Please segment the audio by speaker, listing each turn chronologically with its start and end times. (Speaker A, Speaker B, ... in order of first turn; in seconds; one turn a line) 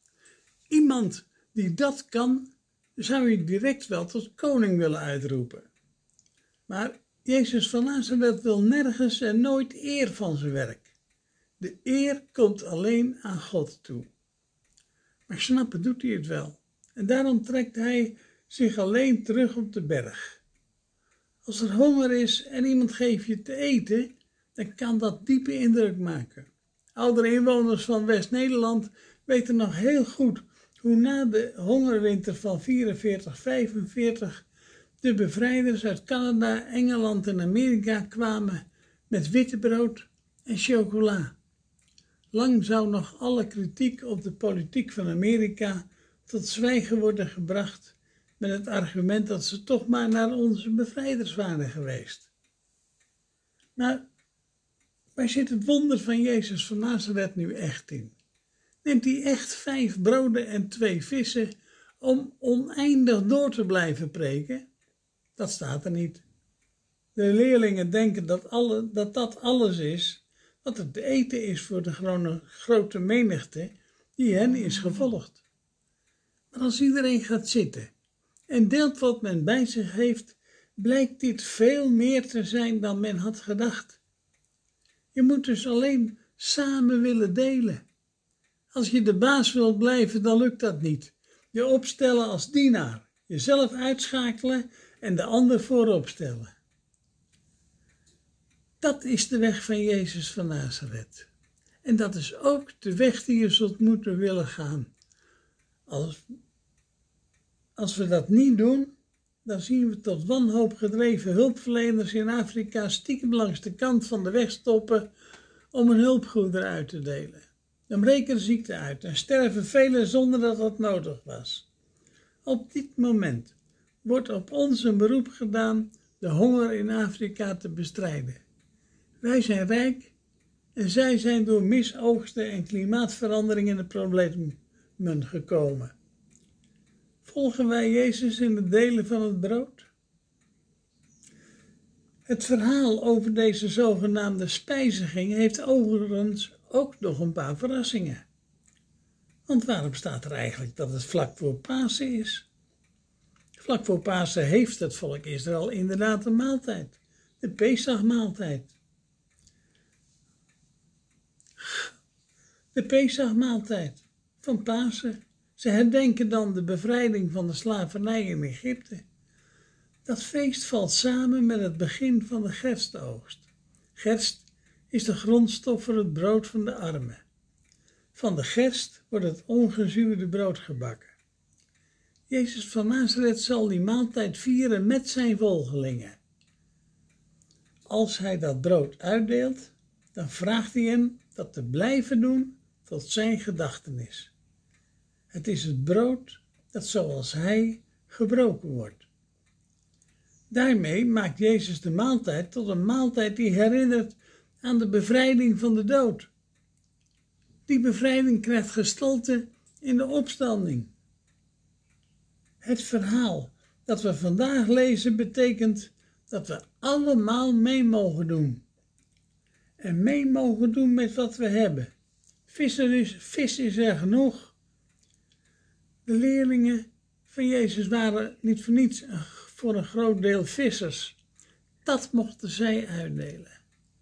Speaker A: 0.7-5.7
Speaker A: 6.7-10.9
Speaker A: 11.6-14.1
Speaker A: 15.3-20.4
Speaker A: 21.4-34.4
Speaker A: 35.0-41.3
Speaker A: 42.3-52.3
Speaker A: 53.8-54.0
Speaker A: 55.1-58.1
Speaker A: 58.8-64.7
Speaker A: 65.3-66.2
Speaker A: 67.2-75.4
Speaker A: 76.5-77.9
Speaker A: 78.5-84.0
Speaker A: 85.1-87.8
Speaker A: 88.7-96.5
Speaker A: 98.8-101.3
Speaker A: 101.8-104.9
Speaker A: 105.9-106.2
Speaker A: 107.8-108.9
Speaker A: 109.4-115.1
Speaker A: 115.7-121.7
Speaker A: 122.4-128.4
Speaker A: 129.2-130.1
Speaker A: 130.8-135.9
Speaker A: 137.2-139.9
Speaker A: 142.3-148.2
Speaker A: 149.5-152.5
Speaker A: 153.6-158.7
Speaker A: 161.6-161.9
Speaker A: 162.7-169.0
Speaker A: 170.0-177.2
Speaker A: 178.1-181.1
Speaker A: 182.3-186.2
Speaker A: 187.9-194.3
Speaker A: 195.3-199.1
Speaker A: 200.5-206.3
Speaker A: 207.7-210.9
Speaker A: 212.6-218.6
Speaker A: 219.8-221.9
Speaker A: 222.5-224.5
Speaker A: 226.1-231.2
Speaker A: 231.8-233.6